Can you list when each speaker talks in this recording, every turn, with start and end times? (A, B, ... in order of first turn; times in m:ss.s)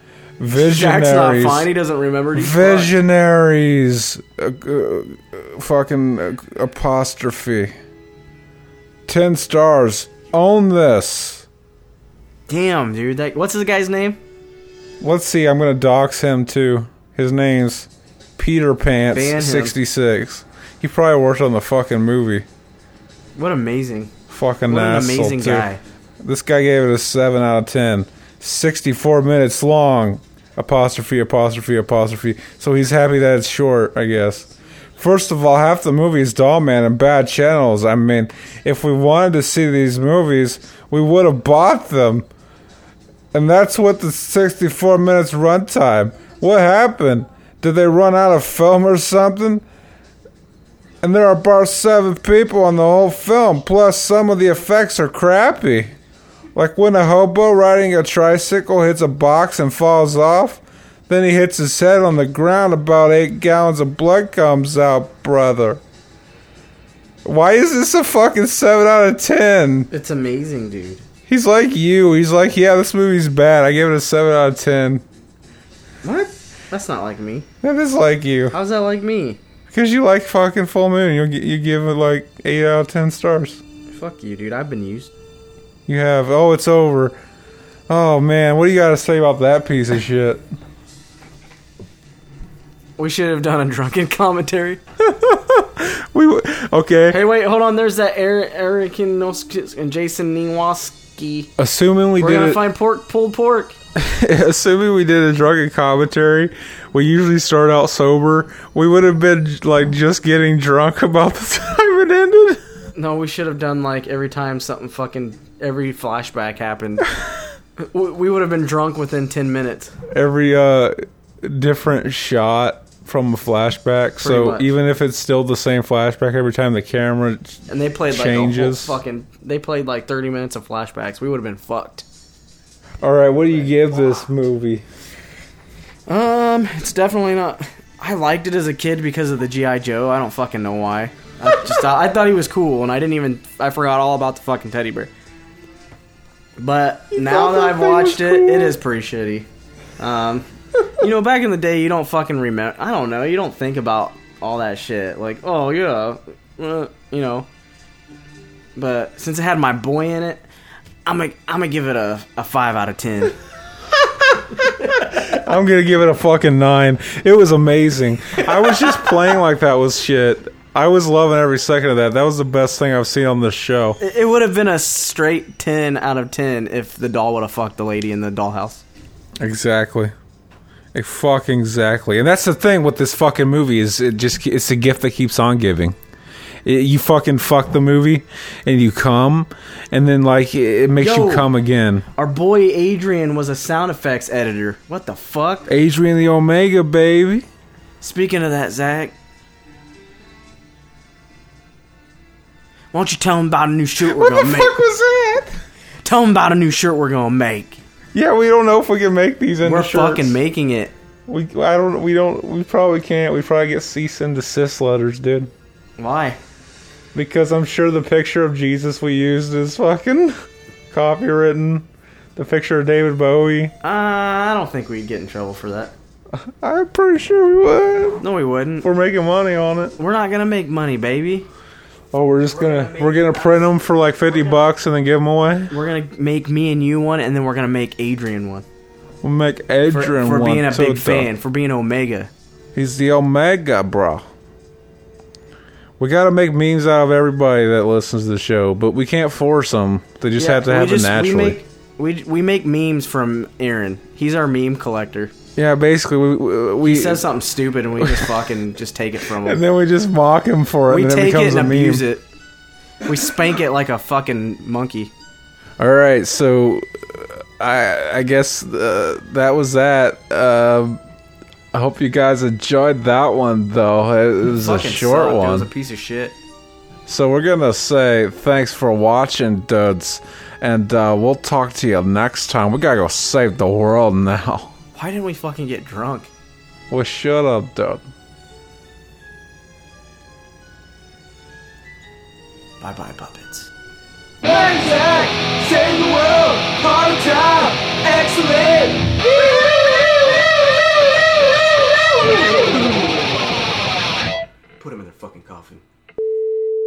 0:00.4-0:01.7 A
0:00.5-0:02.9 B
0:02.3-0:07.7 A
0:09.1-0:11.4 A
0:12.5-0:14.2 B
0:15.0-0:22.4 A
0:19.1-0:19.8 B
0:23.4-0:24.1 B
0:24.3-0:25.7 A
0:24.7-0:25.8 B
0:26.2-0:42.2 A
0:43.3-0:49.6 A
0:51.0-0:55.9 A
0:56.5-1:05.8 A
1:07.2-1:09.9 A
1:09.9-1:11.0 B
1:11.3-1:15.0 A
1:16.0-1:17.5 B
1:17.6-1:18.5 A
1:18.5-1:19.4 B
1:19.7-1:23.6 A
1:23.9-1:25.1 B
1:25.9-1:27.2 A
1:27.9-1:30.4 A
1:33.0-1:34.8 B
1:35.0-1:37.2 A
1:37.1-1:41.5 B
1:41.6-1:42.6 A
1:42.2-1:43.8 B
1:43.9-1:52.6 A
1:52.9-1:57.1 B
1:57.8-1:59.9 B
2:00.1-2:09.0 A
2:04.2-2:04.7 B
2:07.7-2:12.0 B
2:13.0-2:14.8 A
2:16.1-2:25.1 B
2:26.6-2:29.5 B
2:27.1-2:28.8 A
2:30.0-2:37.5 B
2:38.8-2:40.4 B
2:41.0-2:43.3 B
2:44.8-2:54.0 A
2:54.0-2:58.8 B
2:59.4-3:00.1 A
3:00.9-3:06.0 A
3:06.6-3:12.0 A
3:11.0-3:11.5 B
3:12.1-3:15.7 B
3:15.7-3:17.4 A
3:18.0-3:19.1 B
3:22.9-3:24.8 B
3:24.0-3:25.6 A
3:26.0-3:27.8 B
3:28.1-3:30.4 A
3:29.6-3:30.9 B
3:31.3-3:35.5 A
3:36.0-3:36.4 B
3:37.1-3:43.7 A
3:43.8-3:45.9 B
3:46.3-3:48.2 A
3:48.2-3:48.9 B
3:48.8-3:50.0 A
3:50.0-3:51.5 B
3:52.1-3:55.8 A
3:55.7-3:58.6 B
3:59.2-4:01.3 A
3:59.9-4:02.3 B
4:02.7-4:04.2 A
4:06.0-4:11.6 A
4:10.4-4:15.3 B
4:15.6-4:17.3 A
4:16.8-4:19.6 B
4:18.0-4:18.4 A
4:19.4-4:22.0 A
4:20.9-4:22.2 B
4:23.0-4:25.1 B
4:25.8-4:31.0 A
4:31.7-4:35.7 A
4:34.6-4:36.4 B
4:37.1-4:44.7 A
4:44.9-4:46.3 B
4:46.9-4:48.0 A
4:52.8-4:53.7 B
4:54.4-4:59.2 B
5:02.6-5:02.8 B
5:04.8-5:05.8 B